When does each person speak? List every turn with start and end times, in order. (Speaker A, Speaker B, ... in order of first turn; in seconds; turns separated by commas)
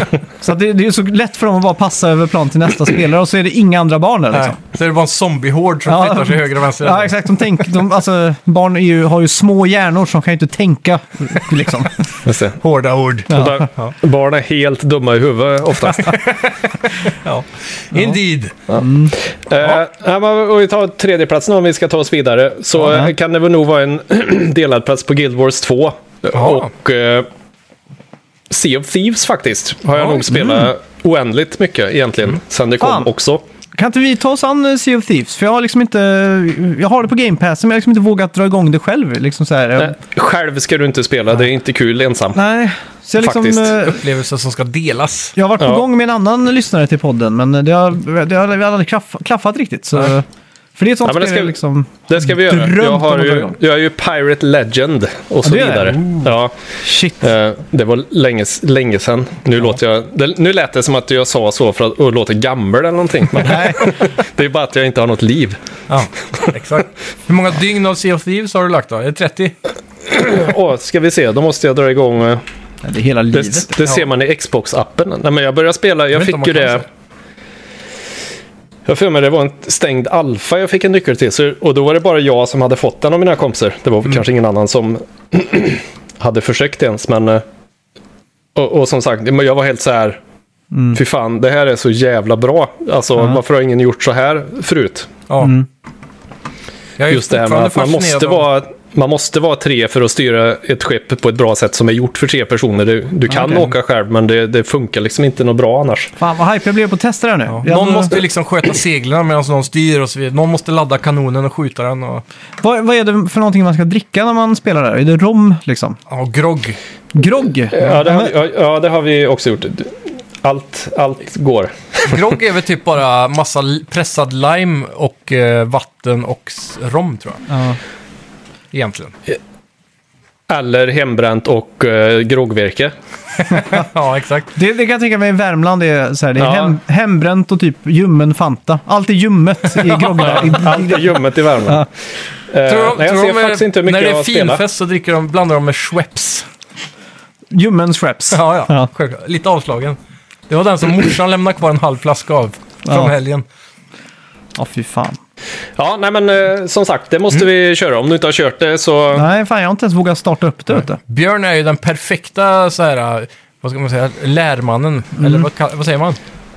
Speaker A: 0.4-4.6, Speaker B: 4.3-7.1, Speaker A: 5.9-12.0, Speaker C: 12.3-12.6, Speaker B: 12.6-13.9, Speaker A: 13.3-13.7, Speaker C: 13.3-16.2, Speaker B: 15.9-18.5, Speaker A: 18.8-19.1, Speaker C: 19.4-27.3, Speaker A: 22.8-23.1, Speaker B: 26.4-26.6, Speaker C: 28.5-33.4, Speaker B: 30.0-30.2, Speaker A: 30.3-30.7, Speaker A: 32.8-33.1, Speaker A: 33.7-40.0, Speaker C: 39.8-42.4, Speaker A: 42.4-44.0, Speaker C: 43.2-43.9, Speaker B: 43.9-45.4, Speaker A: 45.4-50.2, Speaker A: 50.8-53.6, Speaker C: 51.0-51.6, Speaker C: 52.1-56.5, Speaker A: 55.4-57.3, Speaker C: 57.2-65.6, Speaker A: 63.4-64.0, Speaker B: 65.9-69.5, Speaker C: 70.1-72.4, Speaker A: 72.8-74.0, Speaker C: 73.3-76.8, Speaker B: 76.1-76.9, Speaker C: 78.9-87.4, Speaker C: 88.5-90.2, Speaker A: 90.7-91.0, Speaker C: 90.9-95.2, Speaker B: 95.3-95.5, Speaker A: 95.4-95.7, Speaker B: 97.0-98.5, Speaker C: 97.1-106.1, Speaker A: 103.3-103.7, Speaker A: 106.2-108.2, Speaker B: 107.5-112.2, Speaker A: 112.6-116.0, Speaker B: 116.1-116.8, Speaker A: 117.1-118.3, Speaker C: 117.7-122.2, Speaker B: 122.0-127.5, Speaker A: 127.5-127.8, Speaker B: 128.7-129.1, Speaker C: 130.5-132.9, Speaker A: 133.6-133.8, Speaker B: 133.6-134.5, Speaker A: 134.5-141.9, Speaker C: 136.4-136.7, Speaker B: 139.7-140.4, Speaker C: 140.3-141.9, Speaker C: 142.5-144.7, Speaker B: 142.7-146.4, Speaker A: 147.5-148.9, Speaker B: 148.3-150.0, Speaker B: 150.5-153.4, Speaker A: 152.8-153.1, Speaker A: 154.6-155.2, Speaker C: 155.8-159.2, Speaker A: 159.2-161.0, Speaker B: 161.0-166.2, Speaker A: 165.2-165.4